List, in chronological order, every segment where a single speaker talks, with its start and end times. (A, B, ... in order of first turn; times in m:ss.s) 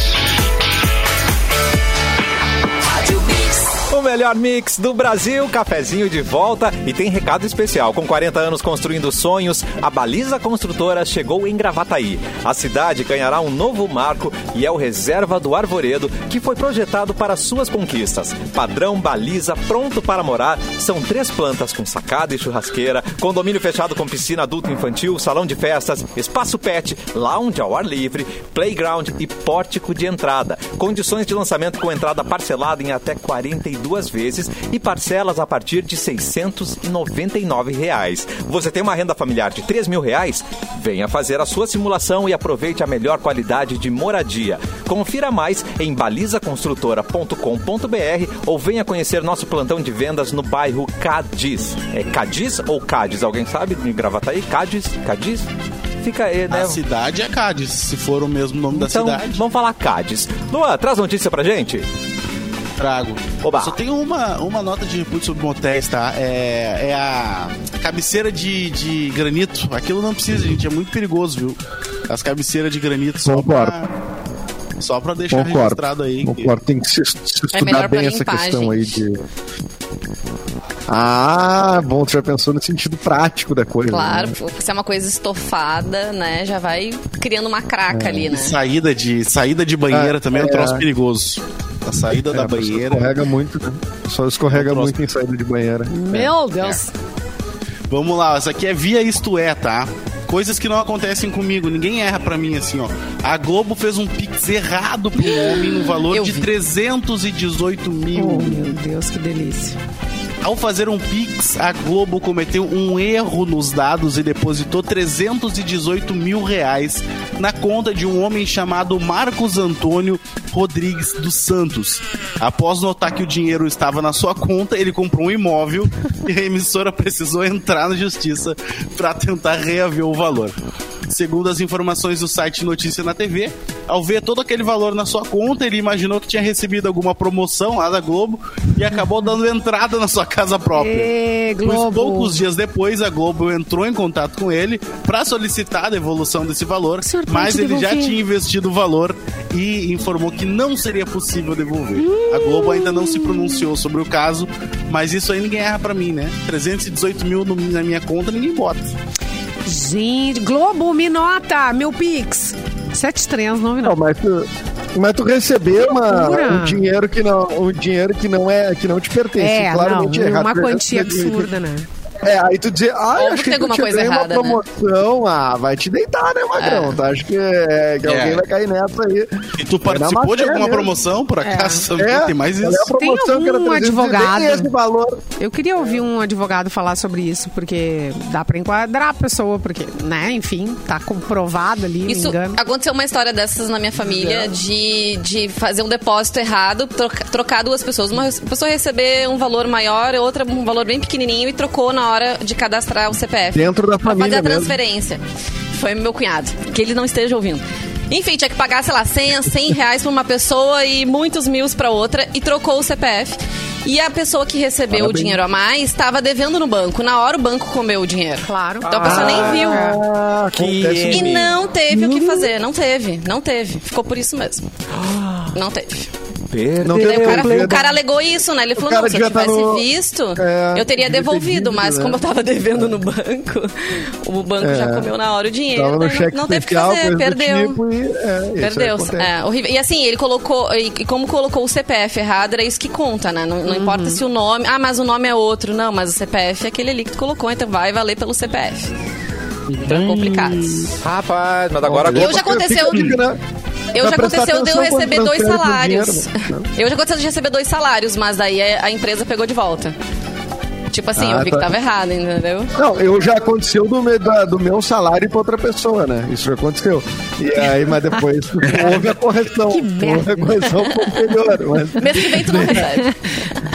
0:03.7-0:55.5 A
0:56.0-0:56.8 A
0:56.5-0:59.4 B
0:58.7-1:01.8 A
1:02.8-1:13.9 B
1:03.4-1:03.8 A
1:13.2-1:13.8 C
1:14.8-1:16.5 B
1:15.3-1:19.2 C
1:17.5-1:19.0 D
1:20.9-1:24.4 C
1:23.9-1:28.6 D
1:27.9-1:28.3 C
1:28.3-1:33.2 B
1:29.9-1:30.8 C
1:32.1-1:36.3 C
1:34.5-1:35.0 B
1:35.9-1:36.8 E
1:36.2-1:36.8 D
1:37.9-1:48.8 B
1:46.1-1:46.5 D
1:48.1-1:49.8 E
1:50.4-2:10.6 B
2:11.1-2:38.9 B
2:20.7-2:22.4 E
2:27.0-2:28.2 E
2:32.0-2:33.7 E
2:39.6-2:44.0 E
2:43.8-2:51.5 C
2:45.8-2:46.8 E
2:49.4-2:51.9 E
2:52.2-3:00.9 C
2:53.2-2:54.6 D
2:56.6-2:57.0 D
2:58.0-2:58.4 B
2:59.6-3:02.9 B
3:01.4-3:01.9 E
3:02.0-3:05.2 C
3:02.9-3:04.7 E
3:05.4-3:12.6 E
3:12.0-3:25.2 D
3:23.5-3:24.8 C
3:25.7-3:39.9 D
3:34.9-3:35.4 C
3:38.4-3:40.0 E
3:38.8-3:39.7 A
3:39.0-3:41.5 C
3:40.5-3:41.6 A
3:41.1-3:44.6 D
3:44.9-3:45.6 A
3:45.5-3:46.1 D
3:46.5-3:47.9 A
3:46.8-3:47.9 C
3:46.8-3:57.8 D
3:48.8-3:53.0 C
3:54.6-3:55.1 C
3:55.7-3:59.3 C
3:58.6-4:08.9 D
4:03.7-4:04.2 E
4:09.8-4:10.9 D
4:10.0-4:10.6 B
4:11.0-4:12.6 A
4:11.8-4:13.4 C
4:12.1-4:13.2 D
4:13.9-4:20.0 D
4:13.9-4:16.6 C
4:20.9-4:22.7 D
4:21.2-4:21.7 C
4:22.7-4:33.0 C
4:29.7-4:30.8 E
4:32.0-4:33.6 D
4:32.7-4:33.1 E